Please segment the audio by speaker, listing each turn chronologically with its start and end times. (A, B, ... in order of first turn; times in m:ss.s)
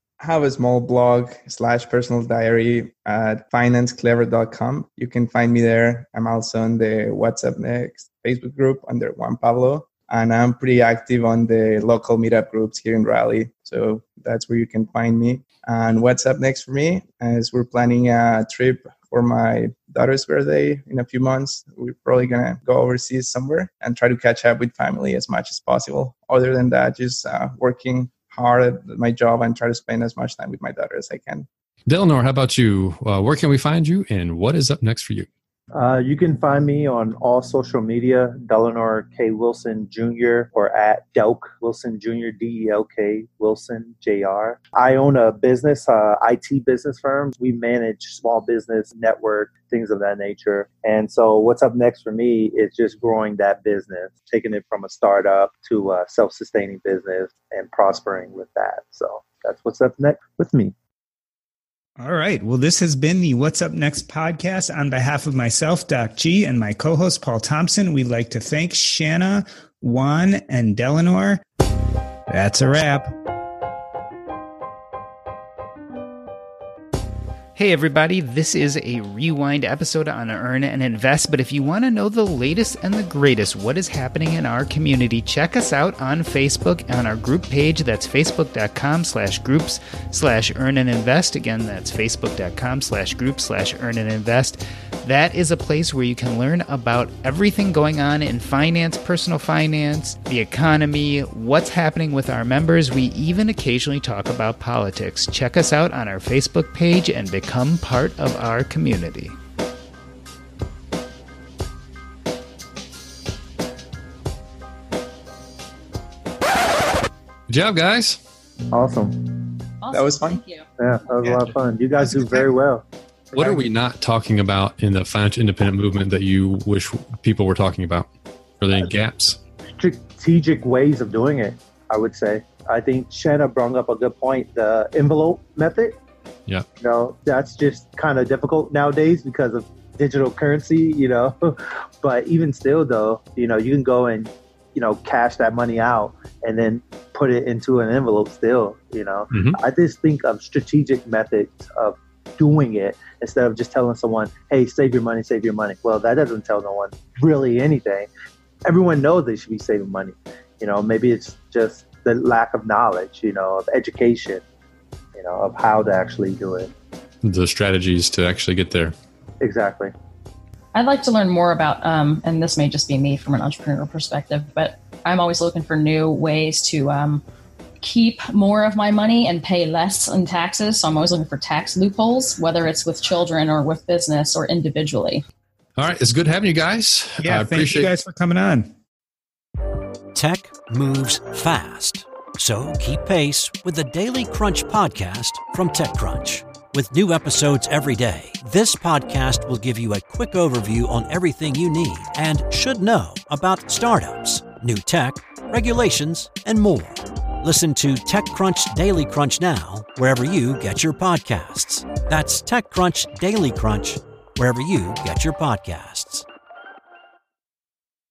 0:00.2-0:31.5 A
0:31.9-0:35.3 B
0:35.7-1:00.7 C
1:02.0-1:11.4 D
1:12.3-1:13.1 D
1:17.6-1:49.4 D
1:57.5-1:58.2 B
1:58.7-1:59.6 C
1:59.8-2:00.7 E
1:59.9-2:00.4 A
2:00.8-2:03.6 C
2:02.0-2:02.5 B
2:03.3-2:08.1 B
2:08.6-2:09.4 B
2:09.6-2:16.0 C
2:16.8-2:38.1 C
2:29.3-2:29.6 B
2:38.6-2:44.4 C
2:45.2-2:46.7 C
2:47.2-2:48.9 B
2:49.4-2:49.9 C
2:50.7-2:57.2 E
2:57.8-3:05.2 E
3:05.8-3:07.9 B
3:07.2-3:08.7 D
3:10.1-3:36.2 F